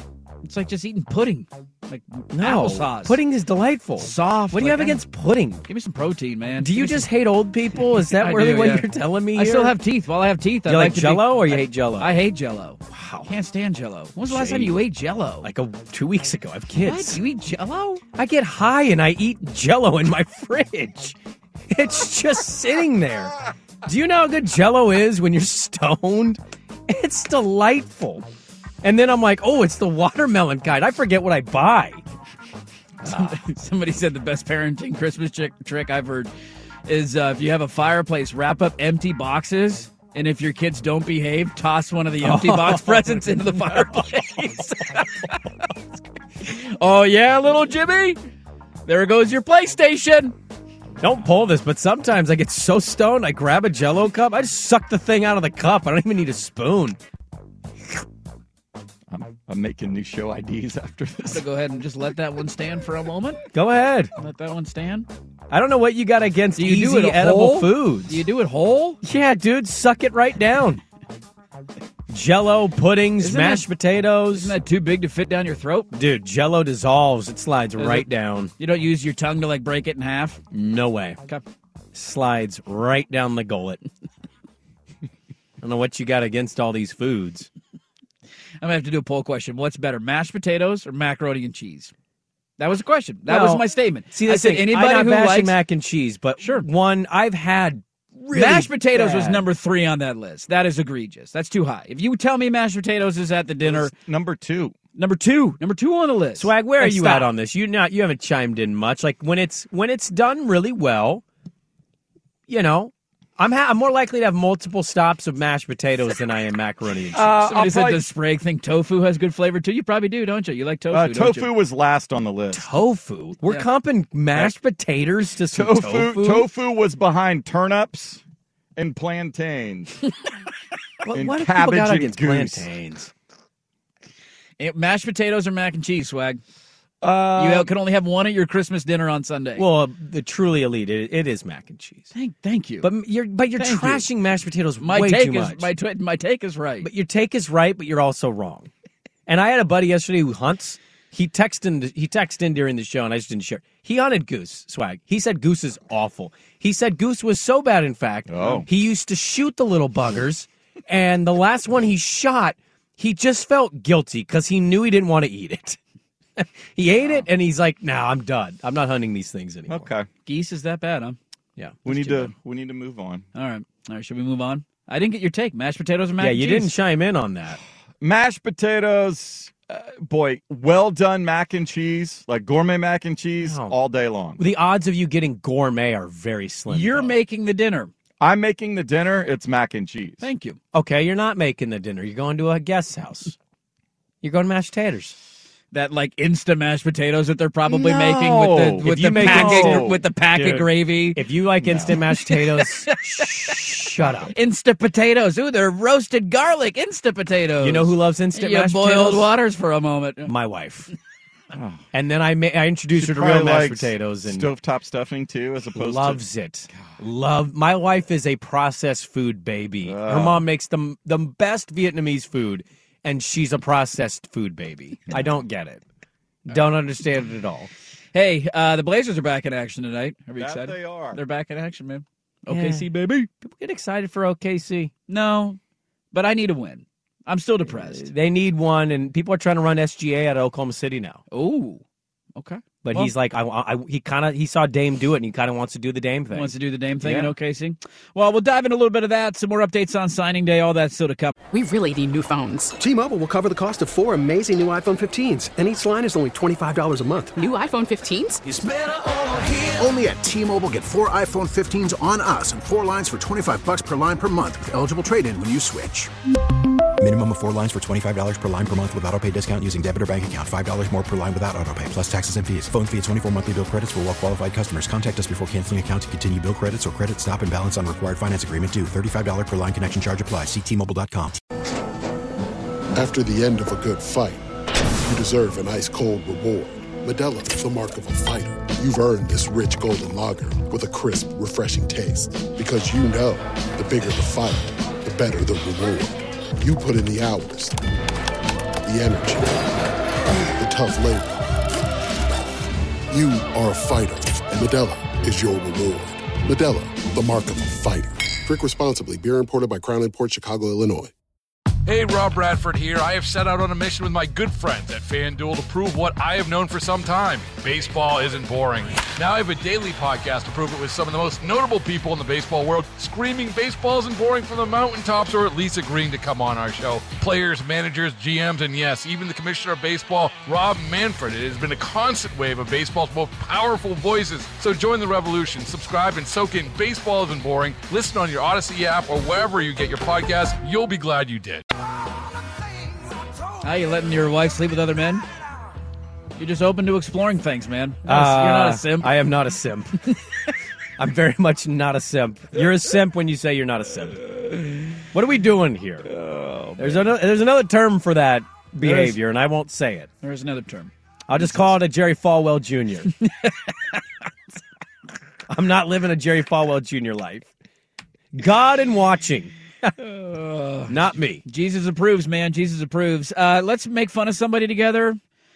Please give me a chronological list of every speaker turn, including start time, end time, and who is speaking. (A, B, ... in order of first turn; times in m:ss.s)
0:00.4-0:03.2 A
0:02.3-0:05.6 B
0:04.0-0:05.0 A
0:05.7-0:07.1 A
0:06.6-0:09.8 B
0:08.0-0:15.5 A
0:10.7-0:12.1 B
0:12.9-0:13.3 B
0:14.3-0:14.8 B
0:15.4-0:17.2 B
0:16.8-0:18.0 A
0:18.2-0:21.2 B
0:21.7-0:28.2 B
0:28.8-0:32.0 B
0:33.0-0:33.4 B
0:33.0-0:36.3 A
0:36.9-0:45.7 A
0:42.2-0:44.0 B
0:46.4-0:48.2 A
0:48.9-0:50.4 A
0:51.0-0:57.0 B
0:59.1-1:01.4 C
1:01.3-1:03.4 A
1:03.5-1:04.1 B
1:04.2-1:05.1 A
1:05.5-1:08.2 B
1:06.6-1:09.0 A
1:09.0-1:10.8 B
1:12.1-1:14.6 B
1:13.2-1:13.7 A
1:14.3-1:15.9 A
1:15.9-1:18.5 B
1:17.8-1:20.4 A
1:20.5-1:21.2 B
1:21.9-1:23.8 B
1:25.6-1:27.5 B
1:28.6-1:31.9 A
1:32.6-1:35.6 A
1:33.3-1:39.4 B
1:36.4-1:36.7 A
1:38.3-1:43.9 A
1:43.6-1:44.8 C
1:45.0-1:47.3 A
1:46.4-1:51.2 B
1:52.5-1:57.3 B
1:57.2-1:58.0 C
1:57.2-2:01.5 A
2:00.9-2:02.7 C
2:02.5-2:06.5 B
2:05.5-2:08.2 C
2:08.8-2:10.0 C
2:11.0-2:13.1 B
2:11.1-2:12.7 C
2:14.6-2:16.4 A
2:17.0-2:17.7 C
2:17.4-2:19.6 A
2:19.6-2:22.1 B
2:22.1-2:22.9 A
2:22.8-2:25.7 B
2:23.6-2:24.1 A
2:24.8-2:26.9 A
2:26.8-2:28.7 B
2:29.3-2:45.8 B
2:38.3-2:38.7 C
2:46.4-2:49.9 B
2:47.0-2:47.3 C
2:49.7-2:50.1 C
2:50.3-2:51.2 A
2:51.6-2:52.3 B
2:51.8-2:53.2 C
2:53.4-2:56.7 A
2:56.2-2:57.6 B
2:58.0-3:04.4 C
3:03.4-3:03.8 B
3:04.4-3:07.2 B
3:06.7-3:07.9 A
3:08.2-3:10.3 C
3:10.2-3:10.6 A
3:10.7-3:13.4 B
3:14.2-3:15.2 B
3:15.7-3:21.2 A
3:17.7-3:20.7 C
3:18.8-3:19.9 B
3:21.2-3:24.3 B
3:21.6-3:22.0 C
3:21.9-3:30.3 A
3:24.0-3:24.3 C
3:27.6-3:29.3 B
3:30.3-3:30.9 B
3:31.5-3:31.8 C
3:31.9-3:34.5 B
3:33.0-3:36.2 C
3:35.8-3:45.8 B
3:39.8-3:40.4 C
3:46.5-3:47.7 B
3:48.1-3:53.3 A
3:50.4-3:51.2 C
3:52.5-3:52.9 B
3:53.4-3:54.9 B
3:55.1-3:55.6 A
3:56.1-3:58.1 A
3:57.7-4:01.2 B
4:01.3-4:01.8 A
4:02.4-4:03.1 A
4:02.8-4:07.3 B
4:06.3-4:11.4 A
4:11.5-4:12.8 D
4:12.8-4:17.4 E
4:17.4-4:18.4 D
4:18.5-4:26.1 F
4:27.0-4:41.4 G
4:42.9-4:44.4 H
4:45.0-4:57.8 H
4:58.8-4:59.7 H
5:00.6-5:01.4 H
5:03.1-5:11.1 H
5:11.9-5:41.6 I
5:43.6-5:45.2 A
5:46.4-5:49.3 A
5:48.1-5:50.1 B
5:51.0-5:54.2 B
5:55.1-5:56.1 B
5:56.1-5:57.2 A
5:56.8-6:00.1 B
5:58.8-5:59.2 A
6:00.2-6:01.7 A
6:01.3-6:03.1 B
6:03.2-6:04.0 A
6:05.5-6:07.5 B
6:08.3-6:10.0 B
6:10.0-6:11.0 A
6:10.9-6:11.4 B
6:11.5-6:15.2 A